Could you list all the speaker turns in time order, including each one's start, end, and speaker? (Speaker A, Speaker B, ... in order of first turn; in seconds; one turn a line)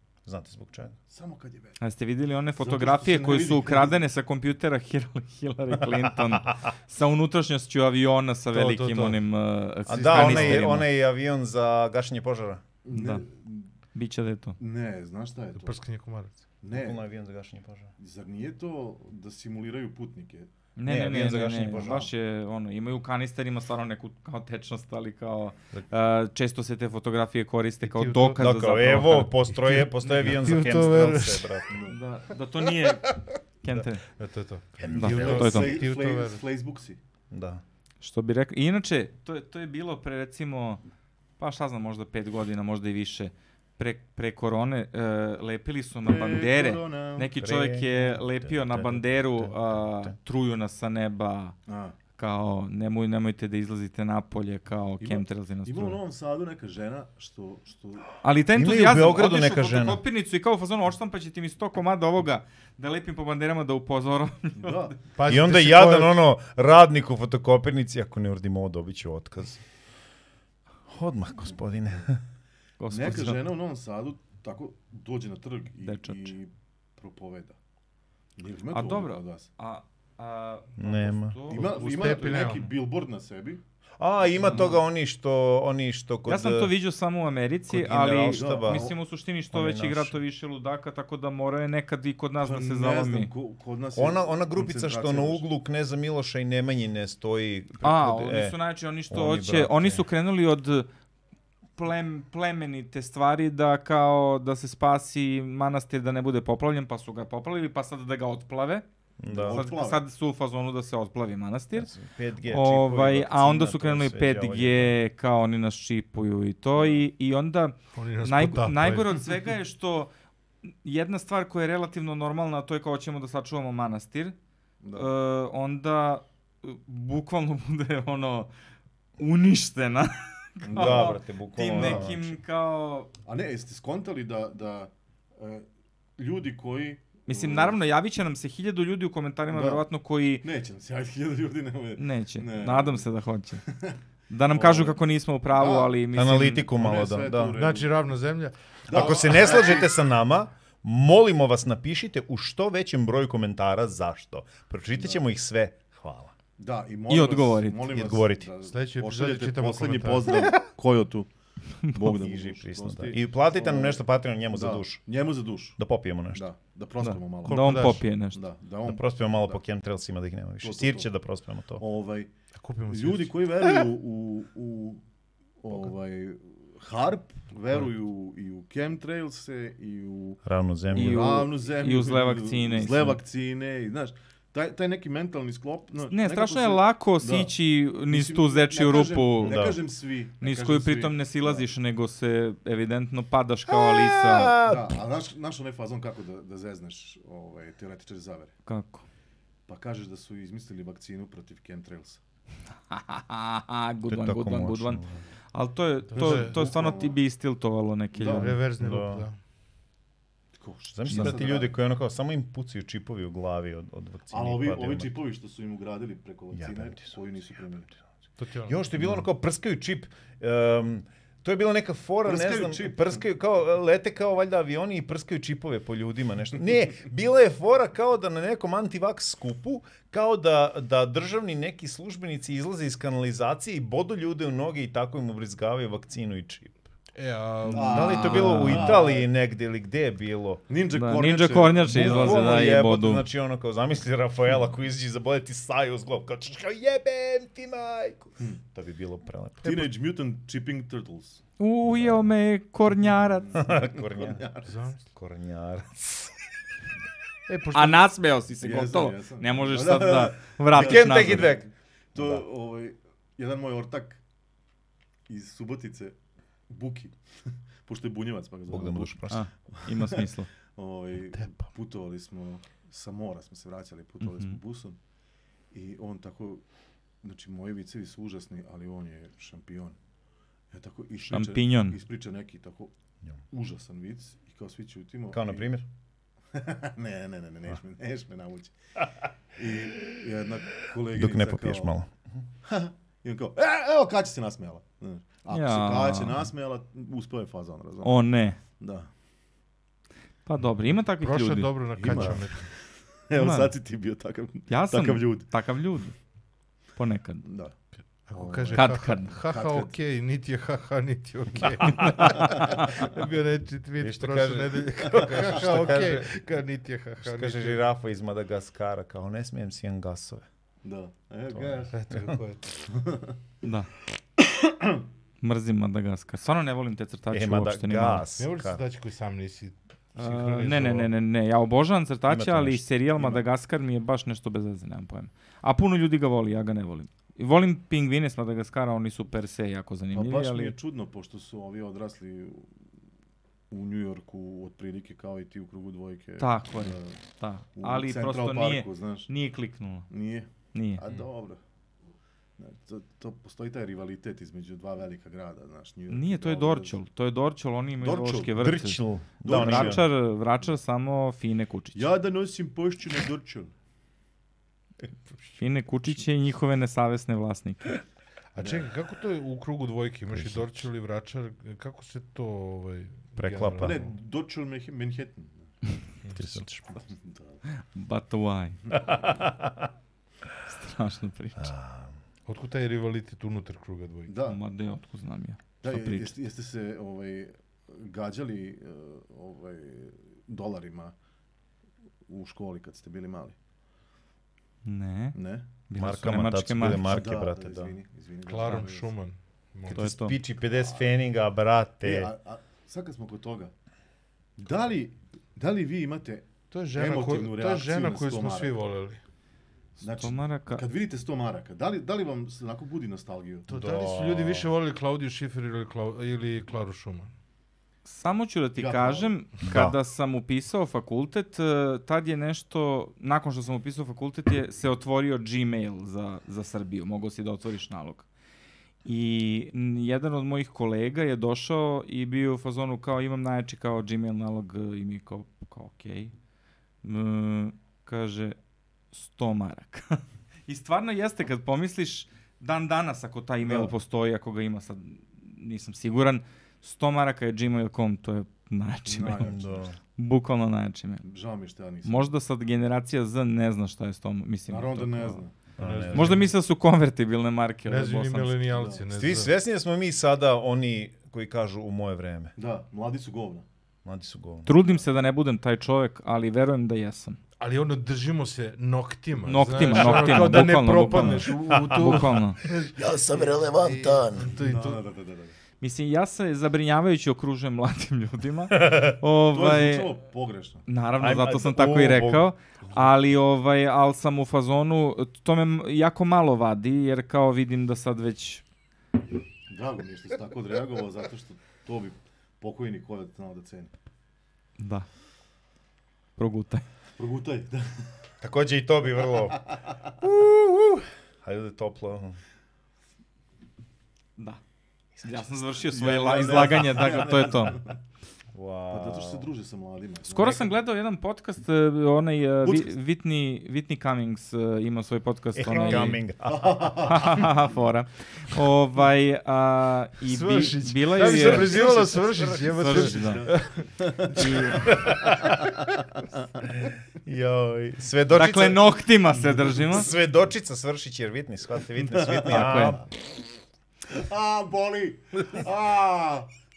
Speaker A: 0.2-0.9
Speaker B: 1.1-1.8
Speaker C: 1.8-10.9
Speaker B: 2.6-4.0
Speaker D: 8.5-9.2
Speaker A: 9.9-12.6
Speaker D: 9.9-10.7
Speaker B: 12.8-13.7
Speaker C: 12.9-13.2
Speaker C: 13.9-14.6
Speaker B: 14.6-15.8
Speaker D: 15.6-16.3
Speaker B: 16.6-17.0
Speaker A: 16.7-17.9
Speaker B: 18.0-20.5
Speaker C: 20.8-29.4
Speaker A: 20.9-22.1
Speaker D: 27.8-28.4
Speaker A: 28.4-31.8
Speaker D: 29.5-31.6
Speaker B: 31.7-32.0
Speaker C: 31.9-34.0
Speaker D: 34.1-36.4
Speaker A: 34.8-35.5
Speaker C: 34.9-35.8
Speaker B: 35.1-37.0
Speaker A: 37.3-37.6
Speaker C: 38.0-40.8
Speaker C: 41.4-51.5
Speaker B: 46.0-47.3
Speaker A: 47.4-50.1
Speaker B: 51.7-52.0
Speaker C: 52.1-56.0
Speaker B: 55.0-58.1
Speaker C: 58.2-64.9
Speaker A: 58.5-60.0
Speaker B: 64.6-64.9
Speaker D: 65.2-66.2
Speaker A: 65.2-69.6
Speaker A: 70.9-72.2
Speaker C: 72.8-73.4
Speaker B: 72.9-77.6
Speaker C: 75.8-76.3
Speaker B: 78.4-79.5
Speaker C: 78.7-82.6
Speaker A: 80.8-81.4
Speaker B: 81.5-83.6
Speaker D: 81.5-82.7
Speaker A: 84.0-86.7
Speaker B: 84.2-84.8
Speaker C: 84.4-84.8
Speaker C: 86.2-93.3
Speaker A: 87.7-88.9
Speaker B: 88.2-89.0
Speaker A: 89.5-90.2
Speaker B: 92.4-95.4
Speaker A: 93.9-98.5
Speaker C: 97.8-100.9
Speaker A: 99.1-100.0
Speaker C: 101.8-108.8
Speaker A: 109.2-109.6
Speaker B: 109.2-110.0
Speaker C: 109.5-111.9
Speaker A: 111.7-115.0
Speaker C: 112.5-120.1
Speaker B: 116.8-117.0
Speaker D: 117.9-119.2
Speaker C: 120.7-124.3
Speaker B: 124.8-125.1
Speaker C: 124.9-128.5
Speaker C: 129.2-133.1
Speaker B: 130.6-131.2
Speaker A: 130.7-132.3
Speaker B: 131.7-132.1
Speaker B: 133.2-137.8
Speaker C: 137.3-140.4
Speaker B: 139.5-139.8
Speaker B: 140.4-143.0
Speaker C: 142.0-143.6
Speaker B: 143.7-144.0
Speaker C: 144.3-146.7
Speaker B: 144.5-145.0
Speaker B: 145.5-145.9
Speaker A: 146.1-147.6
Speaker B: 146.7-147.9
Speaker D: 147.5-148.5
Speaker B: 148.9-149.9
Speaker A: 148.9-156.3
Speaker B: 155.0-155.2
Speaker B: 156.6-161.3
Speaker C: 157.1-157.9
Speaker A: 157.9-158.5
Speaker D: 158.7-160.6
Speaker C: 161.8-162.1
Speaker B: 161.9-165.8
Speaker A: 162.0-165.1
Speaker A: 165.8-166.5
Speaker B: 166.3-169.6
Speaker C: 167.0-168.4
Speaker D: 167.4-168.0
Speaker A: 168.8-171.8
Speaker B: 170.6-171.1
Speaker B: 171.8-172.3
Speaker D: 172.6-173.6
Speaker B: 172.9-175.0
Speaker B: 175.6-187.5
Speaker A: 180.4-181.4
Speaker C: 180.9-183.2
Speaker C: 186.1-189.8
Speaker B: 188.1-191.7
Speaker A: 189.4-189.8
Speaker C: 190.4-194.6
Speaker A: 193.7-195.0
Speaker B: 194.6-198.5
Speaker C: 198.7-199.0
Speaker B: 199.7-202.2
Speaker C: 202.9-205.0
Speaker A: 204.1-205.2
Speaker C: 205.5-208.6
Speaker D: 206.1-206.6
Speaker B: 206.2-207.2
Speaker B: 208.2-208.5
Speaker D: 208.3-209.3
Speaker A: 208.8-209.3
Speaker B: 210.6-211.7
Speaker A: 210.9-215.1
Speaker C: 211.1-211.3
Speaker B: 214.3-217.9
Speaker A: 216.5-217.1
Speaker D: 218.4-219.2
Speaker A: 218.7-236.8
Speaker B: 222.2-223.2
Speaker D: 237.2-238.9
Speaker A: 237.7-240.6
Speaker B: 237.7-239.3
Speaker B: 240.7-242.7
Speaker C: 240.9-243.2
Speaker A: 241.8-249.9
Speaker B: 249.6-251.4
Speaker C: 251.6-253.6
Speaker A: 251.9-252.3
Speaker B: 253.4-254.7
Speaker A: 253.5-254.5
Speaker D: 254.7-255.0
Speaker A: 255.1-256.3
Speaker D: 257.5-258.0
Speaker C: 257.7-261.5
Speaker B: 258.6-264.2
Speaker A: 260.7-262.4
Speaker B: 265.3-266.1
Speaker B: 266.7-267.2
Speaker B: 267.8-275.0
Speaker A: 268.7-269.4
Speaker C: 269.3-270.5
Speaker C: 274.2-274.6
Speaker B: 275.7-276.6
Speaker B: 277.2-280.0
Speaker B: 280.7-282.9
Speaker C: 281.3-282.0
Speaker B: 283.5-285.6
Speaker A: 285.3-285.8
Speaker B: 286.5-288.7
Speaker B: 289.6-291.9
Speaker A: 291.1-292.1
Speaker B: 292.6-298.2
Speaker C: 295.5-296.4
Speaker C: 298.0-298.6
Speaker B: 298.8-299.1
Speaker C: 300.4-301.8
Speaker D: 301.2-302.6
Speaker B: 301.9-305.5
Speaker C: 303.4-303.7
Speaker C: 304.7-306.1
Speaker C: 306.9-307.4
Speaker B: 307.4-307.7
Speaker D: 308.3-317.8
Speaker B: 308.3-309.9
Speaker C: 308.7-309.4
Speaker C: 311.8-313.0
Speaker B: 312.2-313.0
Speaker A: 314.0-316.3
Speaker B: 315.4-315.9
Speaker A: 317.2-320.4
Speaker B: 320.8-321.9
Speaker A: 321.5-322.4
Speaker D: 321.9-322.6
Speaker B: 322.9-323.4
Speaker C: 323.6-323.9
Speaker B: 324.6-325.0
Speaker C: 325.4-328.2
Speaker A: 327.3-328.8
Speaker D: 328.4-331.1
Speaker C: 330.1-340.8
Speaker A: 332.3-333.4
Speaker B: 340.1-342.7
Speaker B: 343.7-347.2
Speaker C: 346.4-350.1
Speaker B: 347.8-349.3
Speaker B: 350.1-351.6
Speaker C: 350.7-351.0
Speaker B: 352.6-357.0
Speaker C: 356.1-362.1
Speaker B: 358.0-358.5
Speaker A: 358.6-360.0
Speaker B: 359.4-360.0
Speaker B: 361.9-363.7
Speaker C: 365.6-367.9
Speaker D: 368.5-374.0
Speaker B: 368.6-368.9
Speaker A: 370.3-370.7
Speaker A: 373.4-374.1
Speaker B: 373.8-375.7
Speaker A: 376.3-377.0
Speaker B: 377.0-377.6
Speaker C: 377.7-378.8
Speaker A: 379.1-379.7
Speaker C: 380.6-381.7
Speaker A: 381.6-382.1
Speaker D: 382.5-384.3
Speaker B: 384.3-384.6
Speaker C: 384.4-386.3
Speaker B: 385.8-391.1
Speaker B: 392.3-393.6
Speaker C: 394.8-397.2
Speaker B: 395.3-395.7
Speaker A: 395.9-397.9
Speaker B: 396.9-399.1
Speaker D: 398.4-400.1
Speaker A: 399.9-402.3
Speaker C: 399.9-400.4
Speaker B: 400.7-401.1
Speaker B: 402.0-403.7
Speaker B: 404.6-408.7
Speaker D: 406.7-409.2
Speaker B: 410.0-413.7
Speaker C: 410.2-410.8
Speaker D: 413.7-417.3
Speaker A: 413.7-414.7
Speaker C: 418.0-428.2
Speaker B: 418.8-419.3
Speaker A: 419.6-419.9
Speaker C: 429.0-436.3
Speaker C: 437.0-438.6
Speaker C: 439.1-449.5
Speaker B: 443.6-443.9
Speaker B: 449.1-449.9
Speaker A: 449.4-450.0
Speaker C: 450.1-451.2
Speaker B: 451.2-452.3
Speaker C: 452.0-455.4
Speaker B: 454.7-455.5
Speaker A: 455.8-456.5
Speaker D: 455.8-456.5
Speaker C: 456.1-458.6
Speaker D: 457.9-459.5
Speaker B: 458.7-459.0
Speaker A: 459.1-462.5
Speaker B: 462.6-463.6
Speaker A: 464.0-464.9
Speaker C: 464.6-467.4
Speaker D: 467.6-475.0
Speaker C: 469.4-472.6
Speaker A: 469.9-472.3
Speaker A: 473.4-473.9
Speaker B: 474.5-475.6
Speaker C: 475.8-480.1
Speaker A: 478.7-479.2
Speaker B: 479.5-480.8
Speaker C: 480.9-488.6
Speaker A: 481.2-482.5
Speaker B: 489.7-493.9
Speaker C: 494.8-495.1
Speaker C: 496.4-496.8
Speaker B: 497.2-497.9
Speaker A: 498.4-499.6
Speaker A: 500.2-500.5
Speaker C: 500.4-501.0
Speaker A: 501.4-502.4
Speaker A: 505.1-505.4
Speaker C: 505.2-507.8
Speaker B: 505.9-507.9
Speaker A: 508.5-509.5
Speaker B: 508.9-510.7
Speaker C: 510.3-516.2
Speaker B: 512.6-512.9
Speaker A: 515.5-517.4
Speaker D: 515.7-516.1
Speaker B: 516.5-517.5
Speaker C: 517.0-521.9
Speaker D: 520.2-524.6
Speaker A: 521.2-523.1
Speaker C: 522.7-523.5
Speaker B: 522.9-526.4
Speaker C: 524.3-525.0
Speaker A: 524.9-525.8
Speaker A: 527.2-529.0
Speaker C: 528.3-530.1
Speaker A: 529.7-533.1
Speaker B: 532.0-533.0
Speaker C: 532.5-533.0
Speaker B: 534.1-536.5